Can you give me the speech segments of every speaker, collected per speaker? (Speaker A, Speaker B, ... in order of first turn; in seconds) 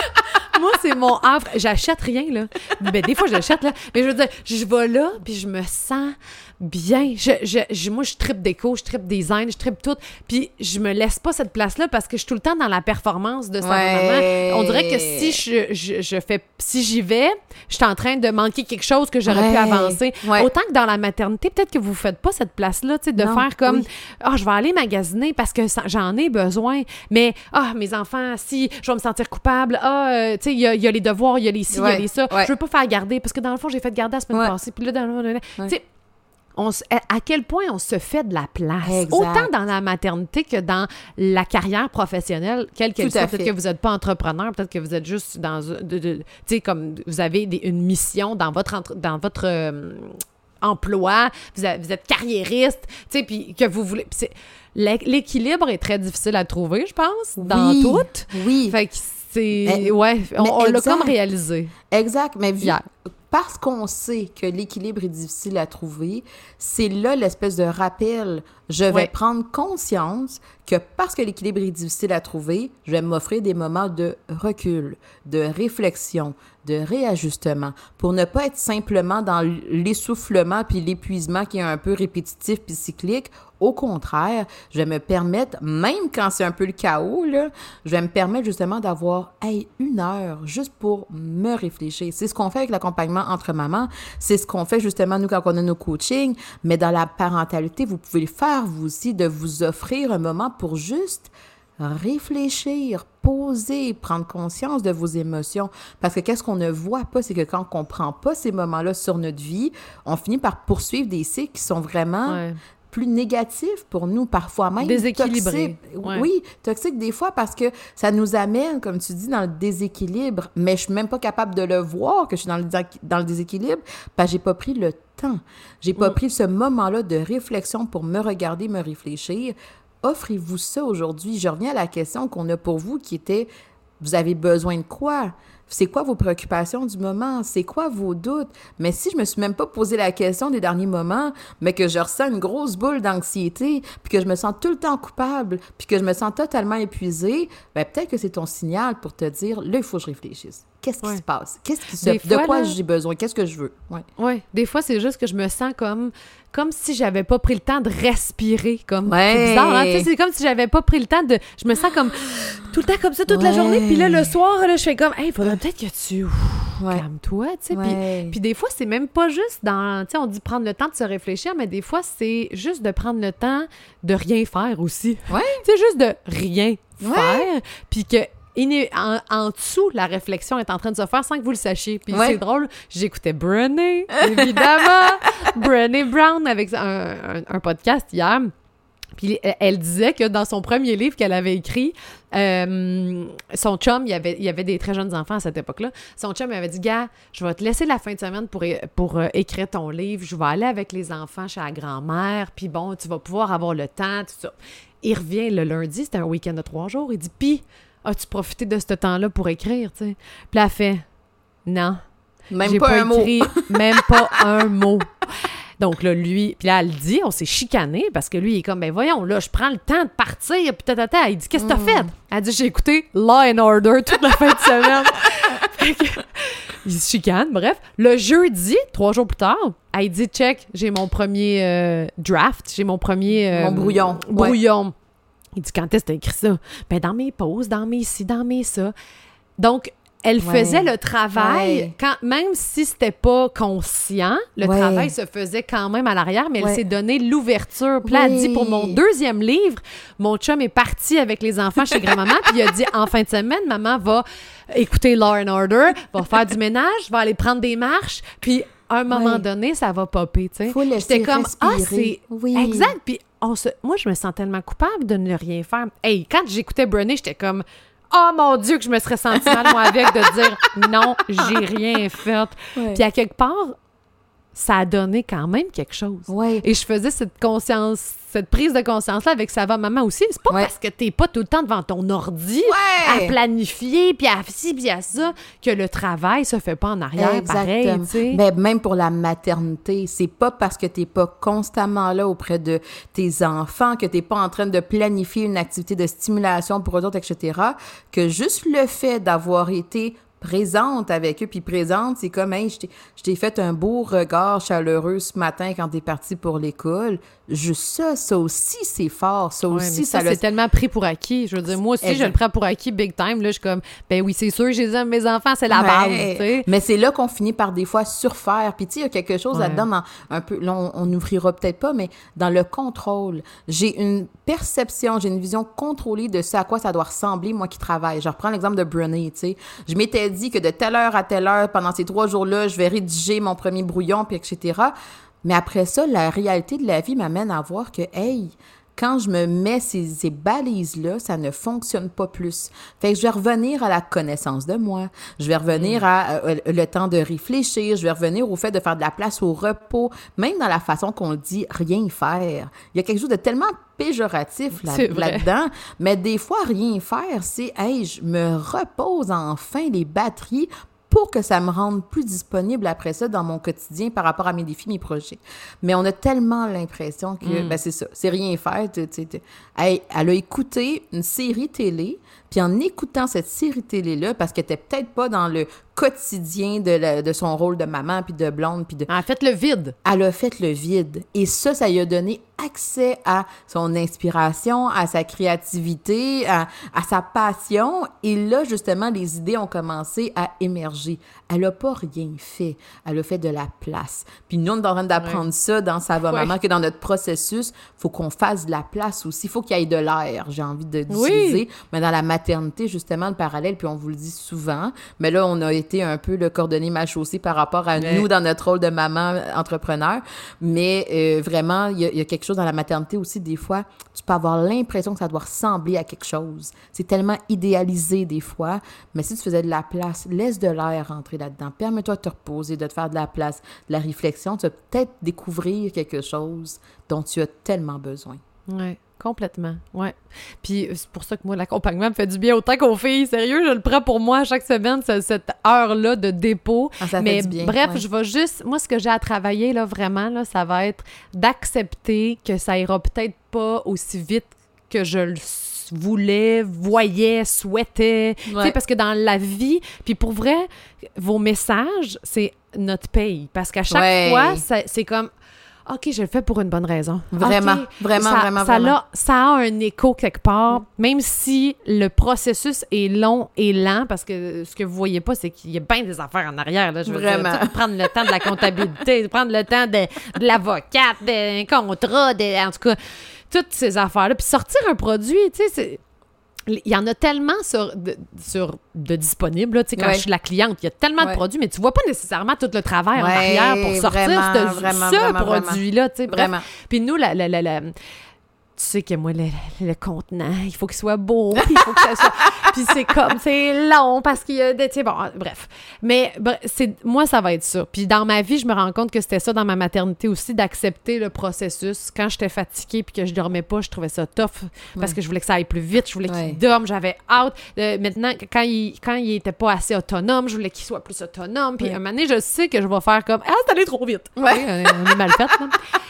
Speaker A: 0.2-35.8, 36.5-61.7, 112.3-112.6, 114.8-116.3, 151.9-152.8, 154.2-188.5, 189.2-211.1, 211.7-212.0, 212.6-215.2, 215.8-234.9, 235.6-238.9, 239.6-273.8, 274.5-288.4, 309.7-316.7, 319.5-319.8, 345.7-346.0, 354.8-355.5, 367.4-367.8, 379.1-379.9, 401.1-401.6, 408.0-408.2, 428.7-455.3, 455.9-473.0, 473.5-476.0, 476.7-487.9, 488.8-515.8
Speaker B: 13.6-15.4, 19.3-20.5, 23.2-23.8, 31.7-32.5, 38.8-39.5, 43.0-43.5, 57.4-58.8, 59.6-61.1, 61.9-62.8, 63.3-133.5, 134.0-154.0, 159.1-160.1, 163.3-164.3, 166.8-167.0, 167.7-168.3, 175.3-175.6, 177.0-177.5, 182.1-182.4, 184.2-184.6, 212.5-214.4, 221.6-222.1, 233.5-234.6, 240.4-241.9, 244.6-245.1, 248.0-249.0, 259.1-259.4, 260.7-262.9, 269.4-270.3, 272.7-273.0, 276.3-276.6, 282.7-283.4, 287.2-310.4, 312.0-312.3, 315.7-334.9, 335.4-379.1, 380.0-428.4, 437.0-438.0, 448.4-448.8, 453.9-454.6, 457.3-458.9, 467.1-468.3, 480.0-480.2, 483.1-486.6, 506.3-506.6, 514.4-515.5